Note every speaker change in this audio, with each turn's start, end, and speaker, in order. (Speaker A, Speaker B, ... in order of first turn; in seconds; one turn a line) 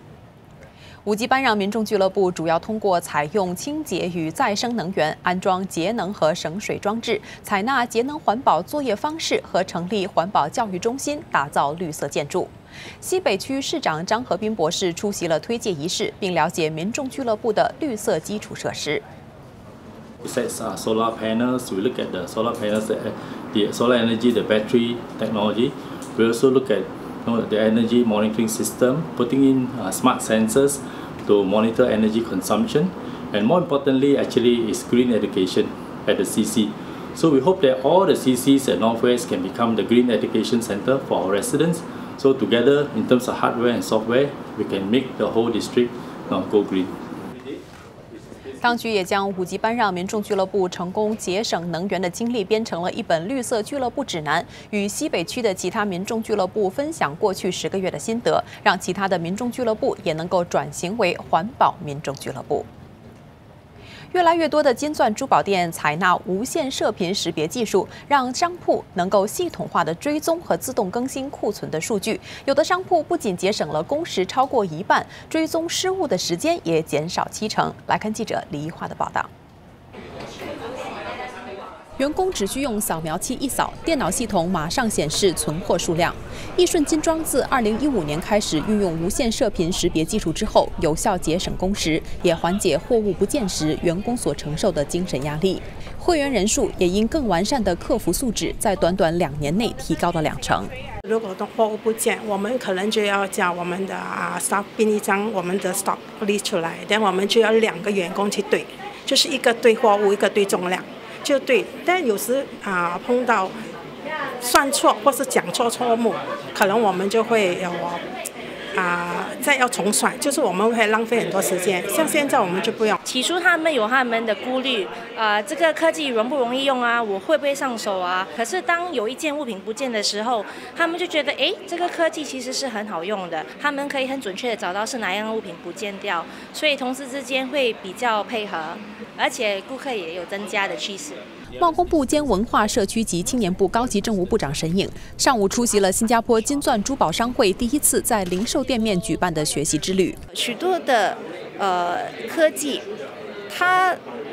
Speaker A: 1.0-12.5
Speaker A: 13.0-19.0
Speaker B: 20.2-46.9
Speaker A: 48.6-62.6
Speaker A: 64.1-79.3
Speaker A: 82.0-100.7
Speaker C: 101.0-113.5
Speaker C: 114.4-118.0
Speaker C: 118.7-123.0
Speaker D: 123.0-141.2
Speaker A: 141.6-150.2
Speaker E: 150.3-152.8
Speaker E: 153.5-154.0